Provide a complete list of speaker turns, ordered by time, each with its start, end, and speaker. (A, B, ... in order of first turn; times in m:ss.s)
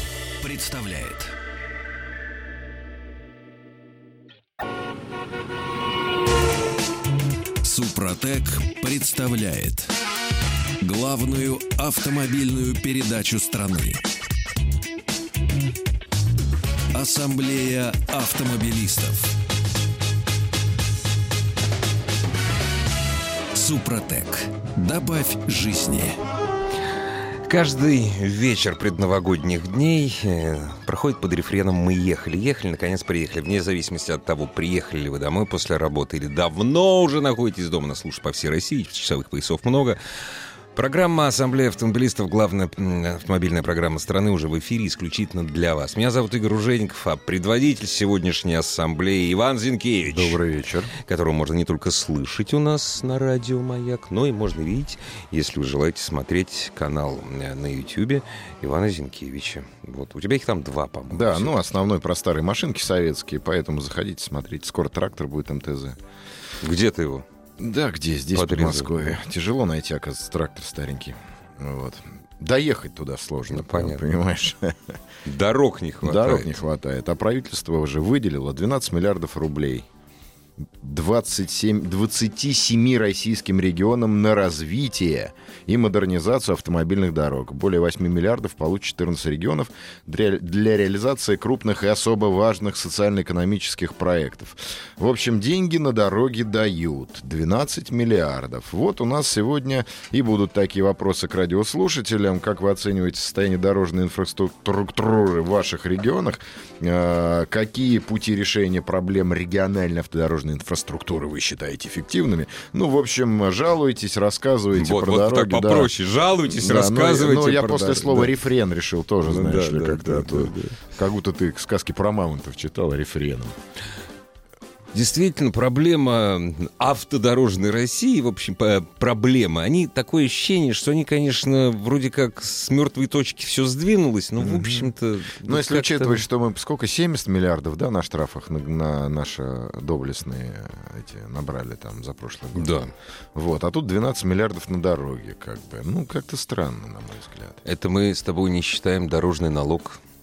0:00.4-0:01.3 A
0:07.6-0:09.9 A
0:10.8-0:14.0 A
0:16.9-0:19.3 A
0:23.5-0:26.2 A
0:27.5-0:40.0 B
0:40.7-0:50.4 B
0:50.1-0:50.9 C
0:51.0-1:01.5 B
1:01.1-1:06.0 C
1:06.6-1:07.2 B
1:07.6-1:15.0 C
1:08.3-1:09.2 B
1:13.5-1:14.0 B
1:15.2-1:16.5 B
1:16.0-1:19.8 C
1:20.8-1:55.9 C
1:54.7-1:58.4 B
1:56.4-2:03.5 C
1:59.2-2:00.8 B
2:04.9-2:16.2 B
2:14.4-2:14.9 C
2:15.4-2:22.8 C
2:22.5-2:22.9 B
2:23.3-2:27.6 C
2:27.6-2:30.0 B